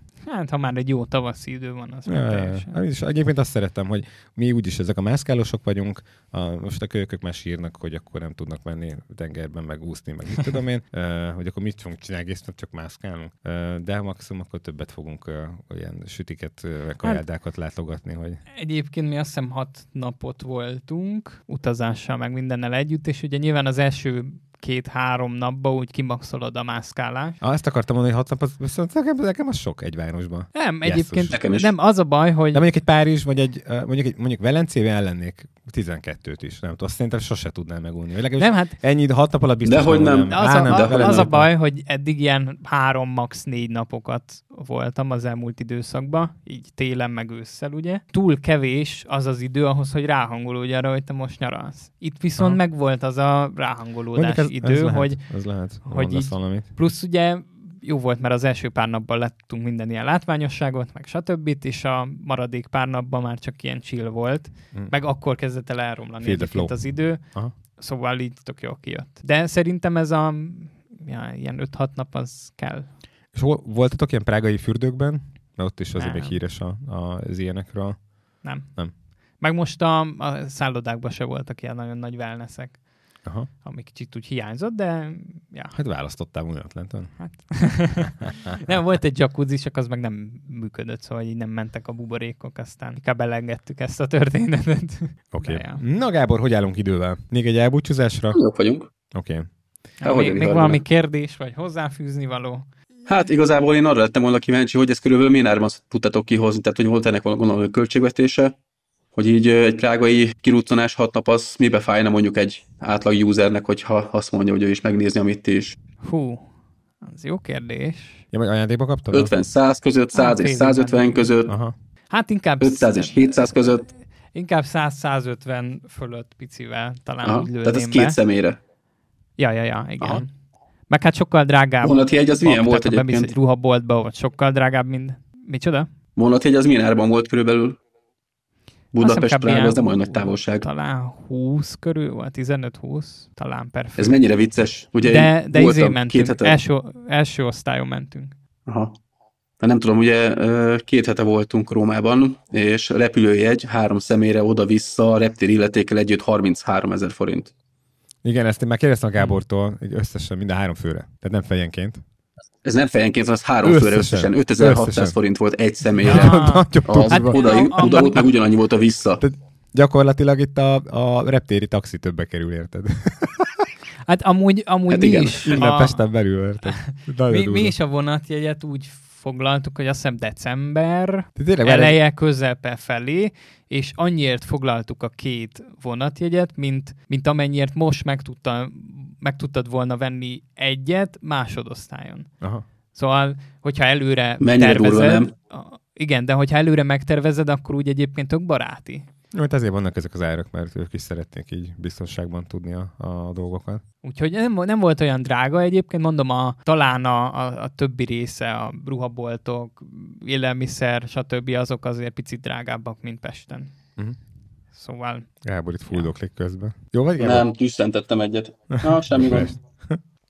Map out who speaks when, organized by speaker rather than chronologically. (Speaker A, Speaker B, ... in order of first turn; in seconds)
Speaker A: 0.2-2.8, 18.5-27.4, 30.6-32.6, 38.4-38.8, 40.3-55.2, 55.9-67.2, 67.8-72.9, 76.0-76.4, 78.4-78.7, 79.4-82.8, 83.6-85.8, 87.2-95.8, 100.0-102.7, 116.0-116.5, 117.0-118.2, 120.1-121.3, 122.1-123.8, 124.3-128.2, 129.4-130.3, 130.9-135.9, 139.0-144.2, 145.0-148.3, 166.1-168.3, 174.1-176.0, 176.7-192.3, 192.9-199.1, 204.0-213.7, 214.7-215.3
Speaker B: 2.1-18.4, 27.4-31.4, 32.5-41.5, 54.1-56.7, 66.2-66.8, 73.3-78.0, 85.7-87.2, 88.2-88.7, 95.3-98.4, 99.1-99.5, 118.3-119.3, 121.5-121.7, 158.2-162.0, 163.6-165.2, 166.0-168.1, 169.2-173.7, 175.4-177.7, 181.4-182.0, 199.3-203.8, 215.4-217.5, 218.7-220.0
Speaker C: 31.3-31.7, 39.6-41.4, 98.3-98.9, 100.0-100.8, 103.1-108.5, 109.2-115.8, 119.1-121.5, 122.6-123.9, 127.2-128.6, 131.8-133.3, 136.2-137.8, 138.9-140.7, 144.0-146.6, 148.7-148.9, 149.6-157.5, 162.6-169.2, 174.9-175.6, 194.4-195.3, 217.2-219.5